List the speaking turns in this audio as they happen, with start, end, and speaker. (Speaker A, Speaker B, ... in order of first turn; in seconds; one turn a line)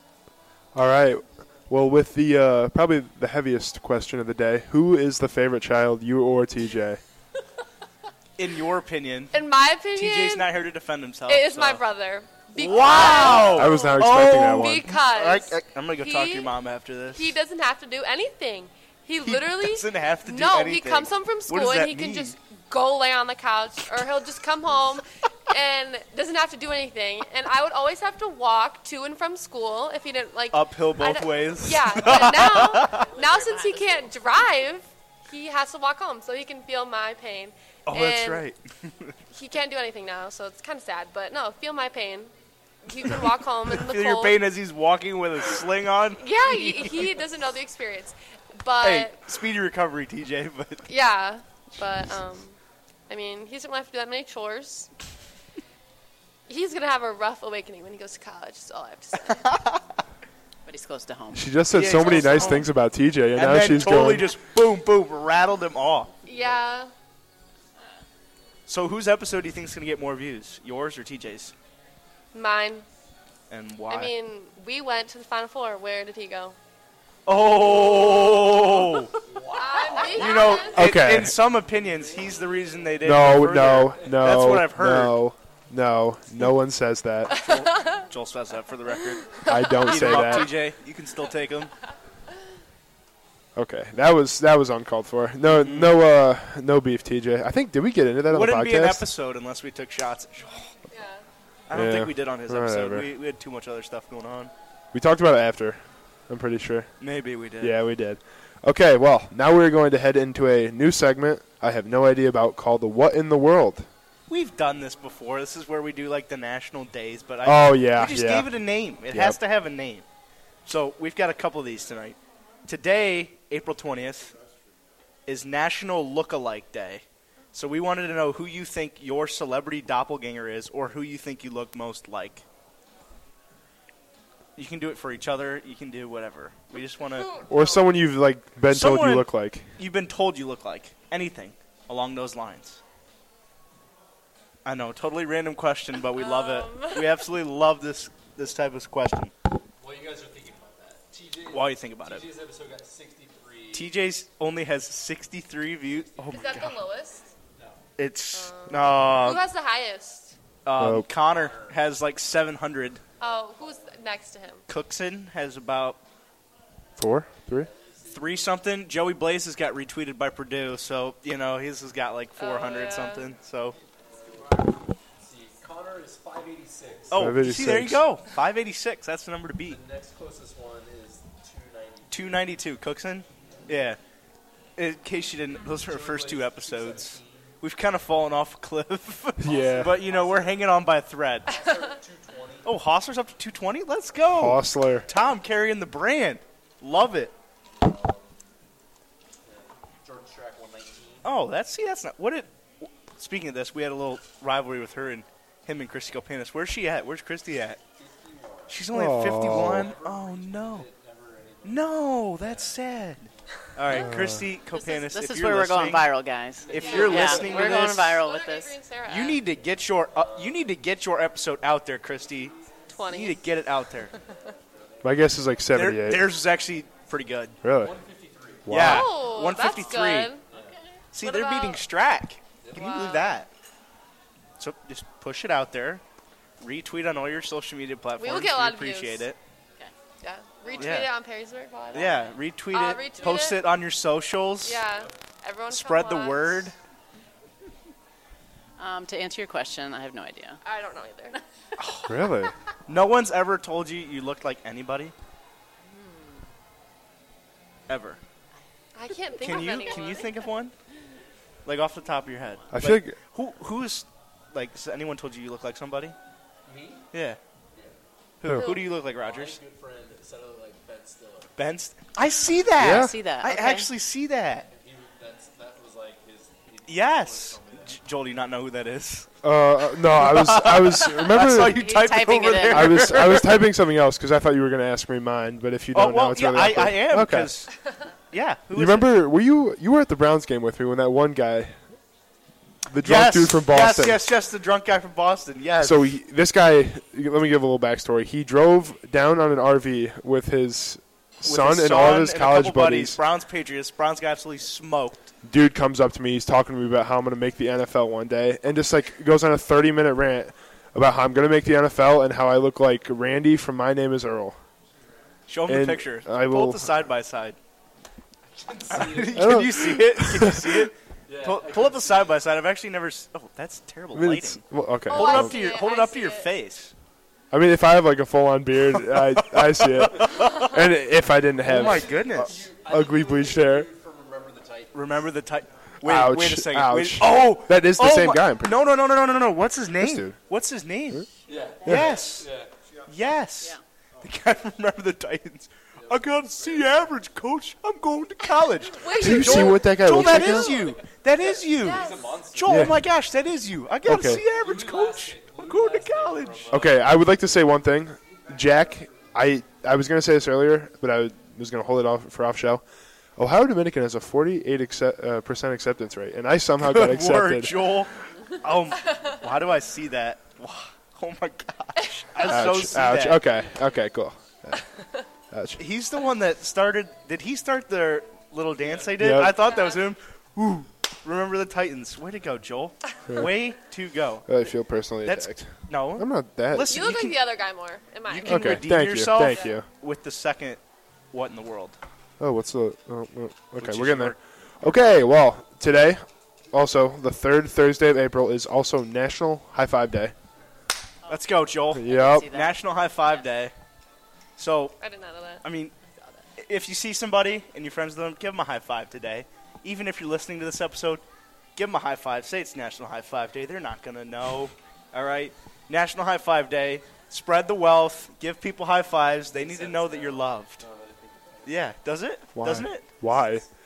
Speaker A: 0.7-7.0
Speaker B: 8.4-9.4
Speaker C: 9.3-10.5
Speaker B: 9.9-11.8
Speaker C: 11.3-16.5
Speaker B: 12.6-17.4
Speaker A: 13.4-14.9
Speaker C: 17.1-38.4
Speaker B: 19.2-22.4
Speaker B: 30.5-33.1
Speaker D: 32.8-34.1
Speaker B: 37.9-39.2
Speaker C: 39.3-42.3
Speaker C: 42.9-44.4
Speaker B: 43.2-47.1
Speaker C: 46.2-49.2
Speaker B: 48.8-50.9
Speaker C: 50.9-52.6
Speaker C: 53.1-54.9
Speaker C: 56.5-59.6
Speaker D: 60.7-61.5
Speaker A: 61.3-64.3
Speaker B: 61.7-62.7
Speaker B: 63.4-66.1
Speaker C: 66.2-66.9
Speaker B: 68.7-71.5
Speaker C: 72.3-72.9
Speaker B: 73.5-74.1
Speaker C: 73.9-76.6
Speaker B: 77.3-79.2
Speaker E: 78.2-80.8
Speaker C: 79.5-81.0
Speaker B: 80.0-85.2
Speaker A: 80.8-81.4
Speaker E: 81.7-84.5
Speaker A: 83.0-87.4
Speaker C: 87.3-88.1
Speaker B: 87.3-91.8
Speaker C: 89.3-90.5
Speaker A: 89.5-90.5
Speaker A: 93.6-99.0
Speaker B: 95.4-96.0
Speaker B: 98.3-100.7
Speaker C: 100.9-101.2
Speaker B: 101.7-104.5
Speaker A: 101.7-103.1
Speaker A: 104.9-106.9
Speaker B: 107.0-107.8
Speaker A: 107.6-113.9
Speaker B: 114.3-120.1
Speaker A: 117.4-118.5
Speaker A: 119.1-119.4
Speaker B: 120.7-124.4
Speaker B: 125.3-132.4
Speaker B: 134.6-137.4
Speaker C: 137.1-137.9
Speaker A: 137.5-139.7
Speaker B: 138.7-142.8
Speaker B: 144.7-149.3
Speaker C: 146.2-147.2
Speaker E: 149.8-153.9
Speaker B: 151.5-152.3
Speaker B: 153.7-156.8
Speaker E: 156.2-156.6
Speaker C: 156.3-157.3
Speaker E: 157.6-157.8
Speaker B: 158.0-159.4
Speaker C: 158.3-160.4
Speaker B: 160.7-163.0
Speaker A: 160.8-161.1
Speaker E: 161.2-161.8
Speaker C: 163.2-164.7
Speaker E: 163.4-163.9
Speaker B: 164.7-166.0
Speaker A: 167.0-167.7
Speaker E: 167.5-168.6
Speaker B: 168.1-173.8
Speaker C: 172.4-173.3
Speaker E: 173.8-177.4
Speaker B: 177.1-179.8
Speaker A: 177.1-178.0
Speaker E: 179.7-182.6
Speaker B: 182.1-184.0
Speaker B: 184.8-191.6
Speaker E: 185.7-187.6
Speaker A: 189.4-190.0
Speaker E: 189.4-190.6
Speaker E: 191.5-192.8
Speaker B: 192.7-197.3
Speaker A: 194.3-195.1
Speaker E: 197.8-198.3
Speaker E: 199.4-201.3
Speaker B: 201.2-207.8
Speaker E: 207.9-212.8
Speaker B: 208.7-210.9
Speaker A: 208.9-209.9
Speaker B: 211.6-216.1
Speaker E: 213.5-213.7
Speaker A: 213.9-214.5
Speaker D: 214.7-218.8
Speaker E: 216.6-217.9
Speaker B: 216.7-218.2
Speaker C: 216.8-219.4
Speaker B: 219.1-222.5
Speaker E: 220.1-220.7
Speaker C: 222.9-223.5
Speaker B: 223.1-224.1
Speaker E: 224.7-225.3
Speaker A: 225.0-226.2
Speaker B: 225.7-227.6
Speaker A: 227.6-228.0
Speaker E: 227.7-228.8
Speaker A: 228.7-229.1
Speaker B: 228.7-230.3
Speaker C: 228.8-230.4
Speaker D: 230.5-231.0
Speaker B: 231.1-233.5
Speaker C: 231.2-231.8
Speaker E: 232.6-233.0
Speaker C: 232.7-233.4
Speaker B: 234.6-236.0
Speaker B: 236.6-239.4
Speaker C: 238.2-239.3
Speaker C: 240.2-243.6
Speaker D: 240.7-241.0
Speaker B: 240.8-241.1
Speaker B: 241.9-244.8
Speaker C: 244.6-246.7
Speaker B: 245.7-246.8
Speaker D: 248.8-250.6
Speaker C: 250.6-251.4
Speaker B: 251.8-252.1
Speaker A: 252.1-252.5
Speaker B: 252.9-255.1
Speaker D: 255.9-256.4
Speaker B: 257.9-258.2
Speaker C: 258.9-260.4
Speaker B: 259.4-260.7
Speaker D: 259.5-260.2
Speaker B: 261.6-266.1
Speaker A: 262.7-263.2
Speaker E: 266.7-267.1
Speaker B: 267.1-267.4
Speaker B: 268.4-269.6
Speaker C: 268.5-268.9
Speaker E: 269.0-271.5
Speaker B: 271.6-274.7
Speaker A: 272.8-273.1
Speaker D: 272.8-273.9
Speaker E: 274.7-278.0
Speaker B: 276.9-279.3
Speaker A: 279.4-281.9
Speaker B: 280.0-283.6
Speaker D: 281.4-283.3
Speaker A: 282.7-287.5
Speaker B: 285.9-287.8
Speaker B: 288.3-289.1
Speaker A: 288.7-291.8
Speaker A: 292.9-294.2
Speaker B: 293.0-296.1
Speaker A: 295.8-303.2
Speaker B: 301.4-305.3
Speaker A: 305.4-314.6
Speaker B: 315.5-317.6
Speaker A: 315.7-317.0
Speaker E: 318.5-319.7
Speaker B: 318.9-326.9
Speaker A: 319.3-320.9
Speaker E: 321.3-322.4
Speaker A: 324.1-325.6
Speaker C: 325.1-326.5
Speaker A: 327.5-333.9
Speaker B: 329.0-330.8
Speaker B: 331.6-332.6
Speaker E: 331.7-335.2
Speaker B: 334.9-341.3
Speaker A: 336.0-338.9
Speaker A: 340.0-340.4
Speaker E: 341.5-342.7
Speaker B: 341.9-342.5
Speaker A: 341.9-342.2
Speaker B: 343.1-356.9
Speaker E: 346.0-347.1
Speaker C: 348.9-350.9
Speaker A: 349.2-350.8
Speaker E: 350.4-352.9
Speaker C: 351.8-352.4
Speaker A: 352.7-353.0
Speaker A: 354.1-354.4
Speaker E: 354.4-357.2
Speaker A: 356.7-362.8
Speaker E: 358.3-359.3
Speaker A: 363.4-367.9
Speaker B: 366.8-373.5
Speaker C: 372.4-372.8
Speaker A: 372.5-374.8
Speaker E: 373.3-374.0
Speaker A: 375.5-375.8
Speaker B: 375.8-384.5
Speaker E: 378.8-379.4
Speaker A: 379.2-379.6
Speaker C: 379.5-380.1
Speaker A: 384.5-386.9
Speaker B: 385.2-387.4
Speaker C: 386.9-388.8
Speaker B: 388.3-390.8
Speaker A: 388.4-389.9
Speaker C: 389.4-389.8
Speaker B: 391.3-392.0
Speaker A: 392.4-400.3
Speaker B: 393.8-395.1
Speaker D: 401.2-403.5
Speaker B: 401.3-403.7
Speaker A: 401.9-402.5
Speaker B: 404.6-405.0
Speaker C: 405.0-405.6
Speaker B: 405.6-405.9
Speaker B: 406.6-411.2
Speaker B: 411.8-420.8
Speaker E: 419.5-421.9
Speaker B: 421.7-423.1
Speaker A: 422.6-423.6
Speaker E: 423.2-423.6